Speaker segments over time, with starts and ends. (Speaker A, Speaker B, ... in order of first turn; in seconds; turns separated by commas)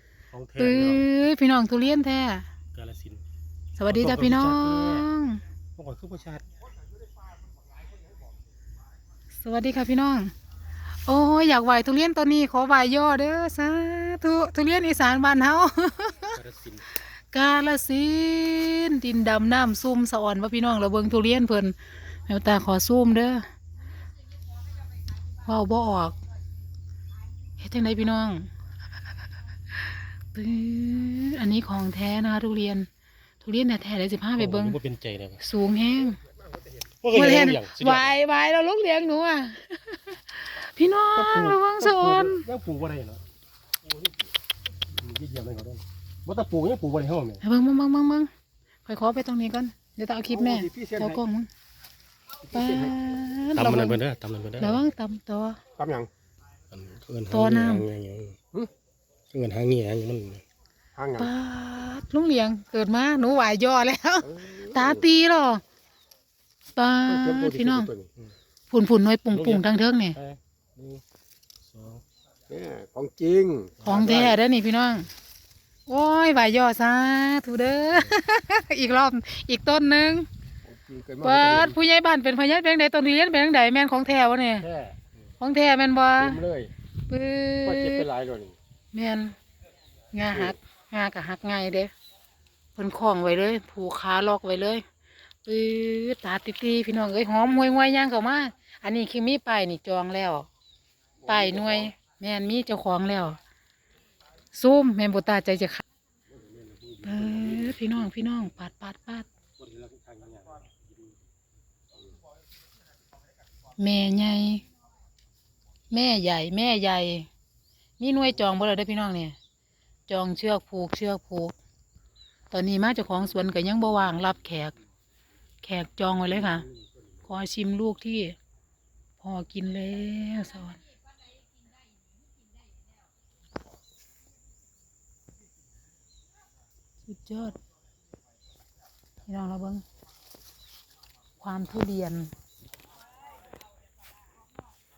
Speaker A: 0.3-1.1, Speaker B: 0.6-2.5, Speaker A: 2.7-3.2, Speaker B: 3.8-5.4, Speaker A: 3.9-5.1, Speaker A: 5.8-6.4, Speaker B: 9.4-10.3, Speaker B: 11.0-16.4, Speaker A: 16.3-16.8, Speaker B: 17.0-23.4, Speaker B: 25.4-26.2, Speaker B: 27.6-28.5, Speaker B: 29.8-32.9, Speaker B: 33.4-34.8, Speaker A: 34.4-35.4, Speaker B: 35.4-36.2, Speaker A: 37.0-38.1, Speaker B: 37.1-42.5, Speaker A: 41.1-43.2, Speaker A: 44.9-47.4, Speaker B: 47.4-48.3, Speaker B: 48.8-51.5, Speaker C: 50.3-51.2, Speaker B: 52.5-54.0, Speaker C: 52.5-53.0, Speaker A: 53.5-54.8, Speaker B: 54.6-55.6, Speaker C: 55.8-56.1, Speaker A: 56.7-58.4, Speaker B: 57.3-57.9, Speaker A: 59.3-60.4, Speaker C: 61.0-61.3, Speaker B: 61.2-65.6, Speaker C: 64.2-65.0, Speaker B: 66.7-67.9, Speaker C: 67.1-68.1, Speaker B: 68.7-70.2, Speaker A: 69.3-69.6, Speaker A: 70.2-71.0, Speaker A: 71.7-72.0, Speaker C: 72.5-74.3, Speaker B: 73.8-75.1, Speaker B: 75.9-80.3, Speaker C: 80.6-81.8, Speaker B: 81.2-84.7, Speaker C: 84.6-85.1, Speaker B: 85.4-86.4, Speaker C: 86.2-86.7, Speaker B: 87.1-88.1, Speaker C: 87.6-88.6, Speaker B: 88.9-89.3, Speaker B: 90.1-91.9, Speaker B: 92.8-94.8, Speaker B: 95.4-100.5, Speaker C: 101.2-101.9, Speaker B: 101.2-103.4, Speaker B: 104.5-105.8, Speaker A: 106.4-107.8, Speaker B: 107.0-109.3, Speaker A: 109.6-111.1, Speaker B: 113.8-114.6, Speaker B: 115.9-117.3, Speaker B: 118.0-119.3, Speaker B: 120.1-121.5, Speaker B: 122.5-124.8, Speaker B: 125.6-126.7, Speaker B: 127.2-128.4, Speaker B: 129.2-130.8, Speaker B: 137.1-137.6, Speaker B: 139.2-139.8, Speaker B: 141.4-142.3